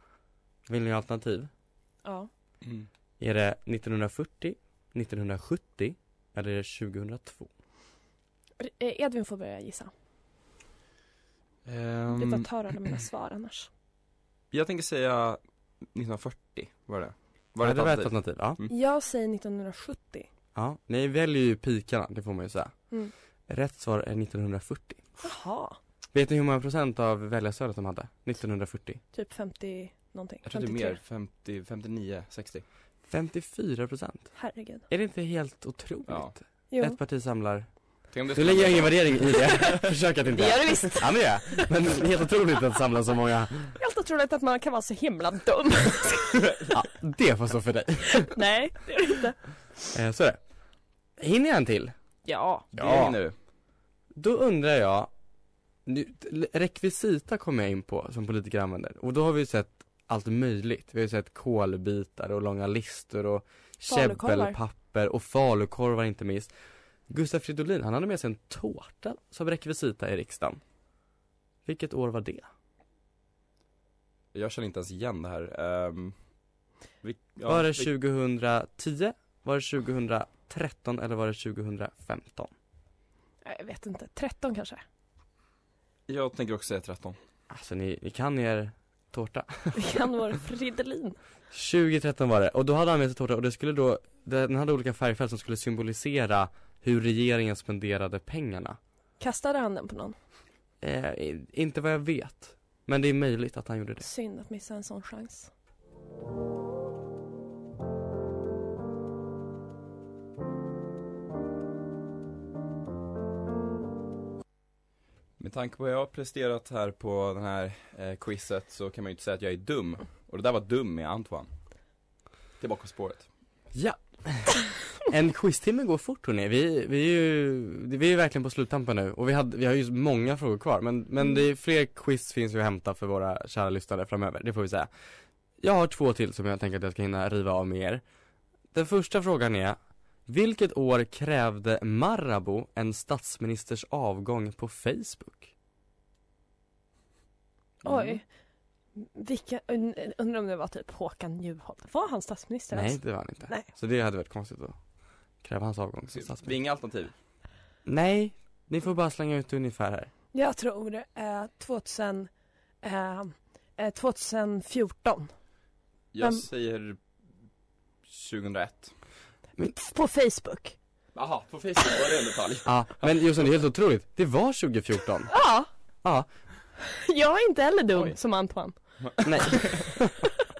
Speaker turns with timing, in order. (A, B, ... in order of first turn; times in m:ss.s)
0:00.7-0:01.5 A
0:03.2-0:07.5 A
0:08.6-0:09.9 B
0:11.6-0:12.5 C
0:12.2-0:13.7 B
0:14.5-0:15.4 C
0:15.9-0:18.7 C
0:17.6-0:18.6 A
0:18.7-0:20.3 B
0:20.5-0:22.7 A
0:23.5-0:25.0 A
0:25.2-0:25.8 B
0:26.1-0:29.0 A
0:29.1-0:31.0 B
0:30.4-0:32.6 C
0:33.1-0:34.3 A
0:34.4-0:34.9 B
0:34.9-0:37.7 A
0:36.1-0:36.3 C
0:36.7-0:37.0 B
0:38.1-0:39.7 C
0:38.3-0:43.8 A
0:39.4-0:41.7 B
0:43.8-0:46.5 B
0:46.7-0:48.3 A
0:48.1-0:49.4 B
0:49.9-0:50.4 A
0:51.2-0:51.9 A
0:52.2-0:52.7 B
0:52.7-0:53.2 A
0:52.7-0:53.3 C
0:54.1-0:55.1 A
0:55.8-1:06.5 A
1:03.9-1:04.6 B
1:07.1-1:10.6 A
1:11.6-1:12.5 A
1:14.3-1:16.1 C
1:17.0-1:17.9 C
1:17.4-1:22.5 A
1:23.4-1:24.8 B
1:26.1-1:27.2 C
1:27.5-1:29.9 A
1:29.7-1:31.2 B
1:31.5-1:38.8 A
1:39.2-1:40.1 B
1:40.8-1:44.1 A
1:44.0-1:45.5 B
1:55.4-2:01.5 C
2:02.6-2:03.2 C
2:03.7-2:14.9 A
2:15.6-2:18.0 A
2:18.7-2:25.5 A
2:27.8-2:28.2 B
2:29.0-2:33.7 B
2:32.7-2:34.8 A
2:35.4-2:36.5 A
2:36.1-2:37.1 C
2:37.8-2:40.1 A
2:40.3-2:42.3 B
2:42.8-2:45.3 B
2:46.1-2:47.0 C
2:48.1-2:48.9 C
2:49.7-2:50.8 B
2:51.1-2:52.7 C
2:52.6-2:55.3 A
2:55.3-2:55.7 B
2:56.8-2:58.7 B
2:59.0-2:59.9 C
2:59.2-3:00.3 A